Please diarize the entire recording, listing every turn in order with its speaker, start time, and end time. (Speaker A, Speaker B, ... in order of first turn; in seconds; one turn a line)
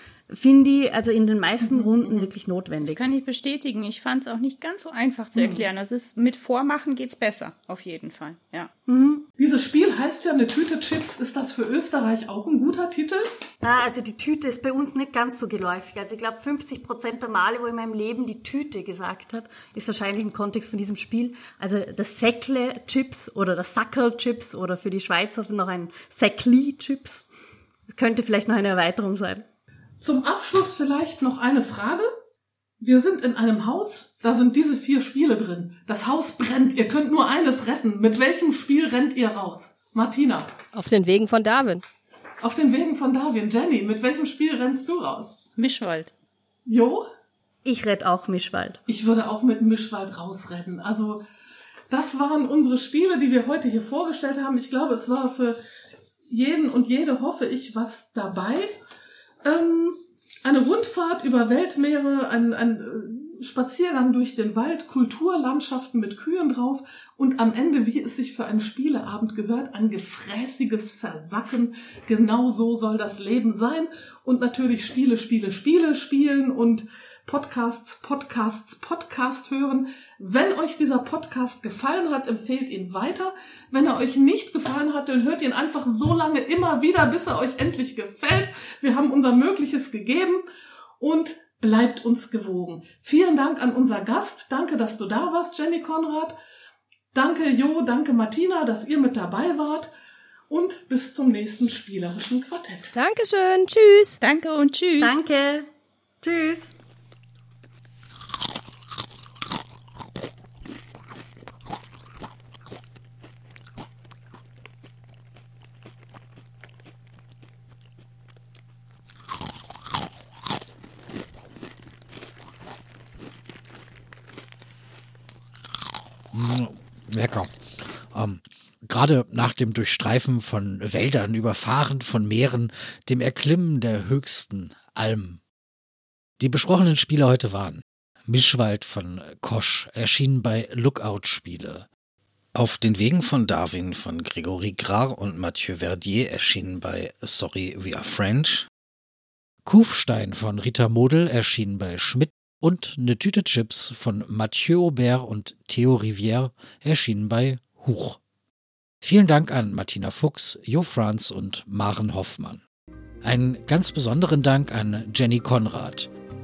Speaker A: 0.3-3.0
Speaker B: 1.6-2.3
Speaker C: 2.8-8.7
Speaker B: 5.3-5.7
Speaker A: 8.9-9.2
Speaker B: 9.4-13.3
Speaker A: 13.6-27.2
Speaker A: 27.9-29.4
Speaker B: 30.0-32.1
Speaker B: 32.8-40.5
Speaker D: 40.7-41.8
Speaker B: 42.4-45.4
Speaker C: 45.6-46.1
Speaker B: 46.6-47.0
Speaker A: 47.6-48.8
Speaker B: 48.9-51.2
Speaker B: 51.9-55.6
Speaker B: 56.3-58.7
Speaker B: 59.4-90.4
Speaker B: 91.0-96.3
Speaker B: 97.1-99.9
Speaker B: 100.5-102.9
Speaker D: 102.9-104.2
Speaker C: 104.2-105.2
Speaker A: 105.0-105.7
Speaker A: 106.2-106.7
Speaker E: 126.3-135.4
Speaker E: 136.4-141.9
Speaker E: 142.5-148.7
Speaker E: 149.6-158.2
Speaker E: 159.0-162.6
Speaker E: 163.2-166.1